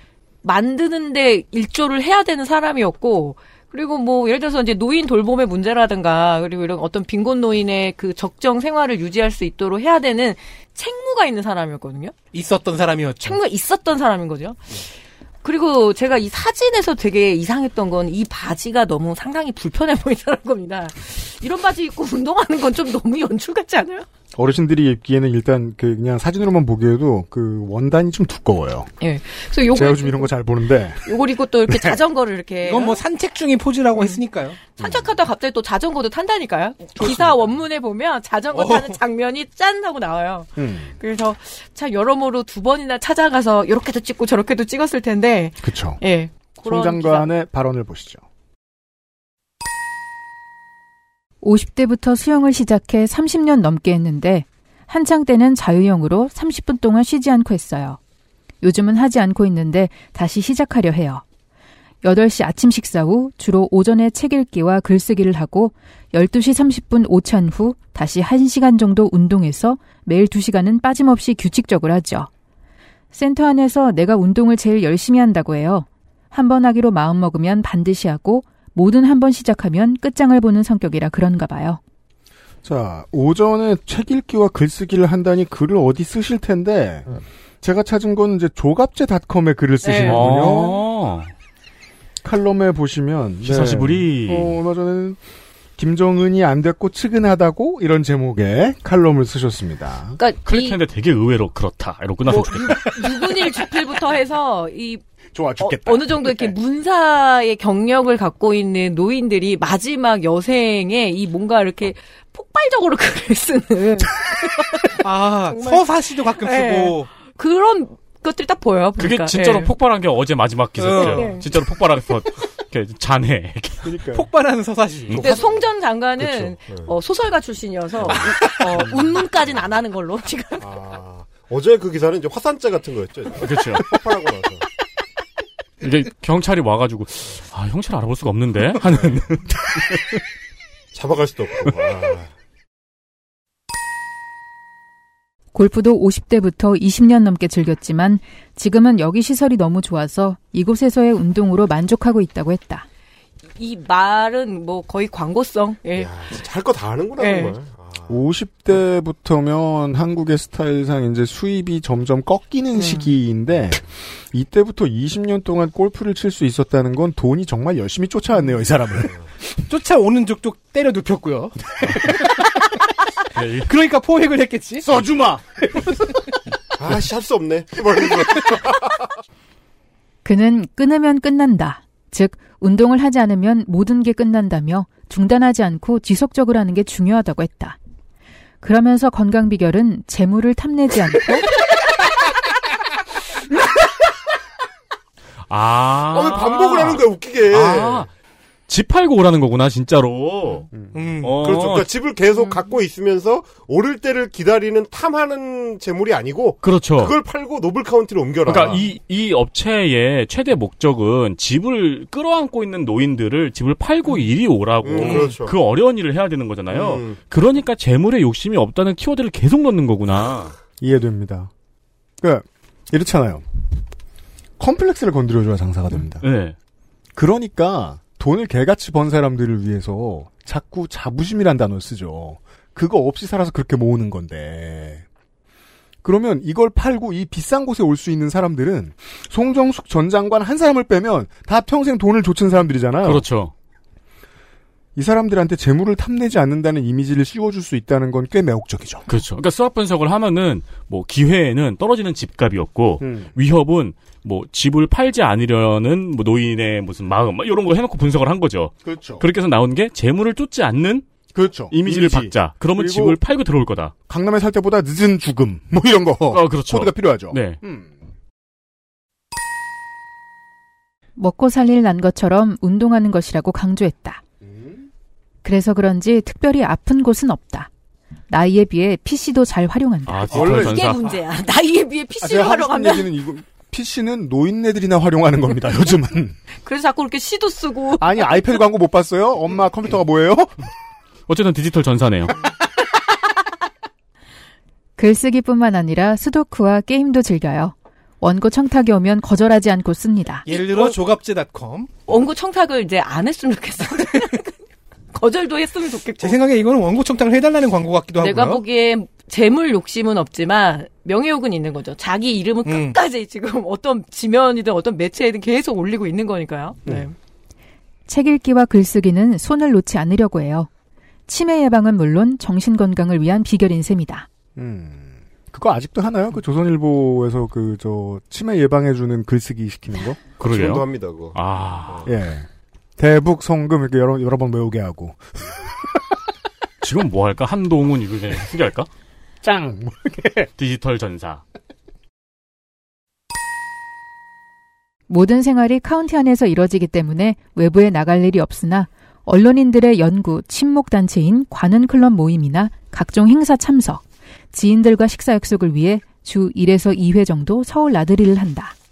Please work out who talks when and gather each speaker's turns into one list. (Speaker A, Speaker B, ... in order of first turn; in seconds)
Speaker A: 0.4-12.1, 13.2-14.7, 15.4-24.1, 29.0-30.3, 31.1-33.0, 34.8-47.3, 89.8-90.3, 100.2-100.8, 102.5-105.0, 105.6-114.9, 115.5-119.7, 121.0-121.5, 125.2-130.6, 153.6-156.1, 157.2-157.6, 162.7-163.1, 280.5-283.1, 286.6-288.5, 302.1-304.5, 305.1-306.4, 308.2-317.1
Speaker B: 12.3-13.4, 32.6-34.6, 38.5-39.0, 115.0-117.1, 119.3-119.6, 120.8-121.3, 124.1-125.4, 169.7-172.3, 173.7-174.9, 200.9-201.3, 300.5-301.9, 306.2-308.6, 312.7-313.0
Speaker C: 24.4-28.9, 29.7-31.1, 31.7-32.0, 34.8-35.1, 40.6-40.9, 45.6-46.0, 46.5-48.2, 82.6-87.1, 87.6-90.8, 92.2-95.2, 95.8-100.2, 105.3-106.5, 123.8-124.3, 158.1-169.2, 174.8-175.6, 220.8-221.5, 222.2-223.4, 224.6-226.2, 227.2-235.1, 236.0-243.3, 245.0-249.1, 253.0-253.3, 258.9-259.2, 261.3-263.2, 264.1-267.9, 280.3-280.9, 282.2-286.4, 288.0-290.5, 324.6-330.2, 332.1-332.5, 333.0-335.7, 339.4-340.5
Speaker D: 51.4-58.0, 58.6-61.2, 62.0-72.3, 73.1-81.8, 145.5-152.9, 180.2-187.8, 188.6-191.5, 271.2-274.2, 275.4-277.7, 278.3-280.4, 295.0-300.5, 318.1-320.7, 321.3-324.3, 345.1-354.0, 354.5-358.7
Speaker E: 90.0-91.3, 93.4-94.6, 100.5-103.0, 119.0-123.9, 133.4-133.9, 135.8-139.7, 173.3-173.7, 195.5-198.1, 198.7-200.7, 201.2-201.9, 206.6-207.2, 208.5-220.6, 226.2-226.6, 243.0-243.5, 249.1-261.1, 261.7-263.9, 266.3-267.6, 280.1-281.0, 291.3-292.4, 330.4-332.1, 336.8-338.9, 340.6-341.4
Speaker F: 126.7-126.9, 130.6-134.6, 140.9-142.3, 156.0-158.1, 176.8-179.1, 196.1-198.1, 201.4-208.9, 214.8-215.6, 216.7-217.2, 330.4-332.1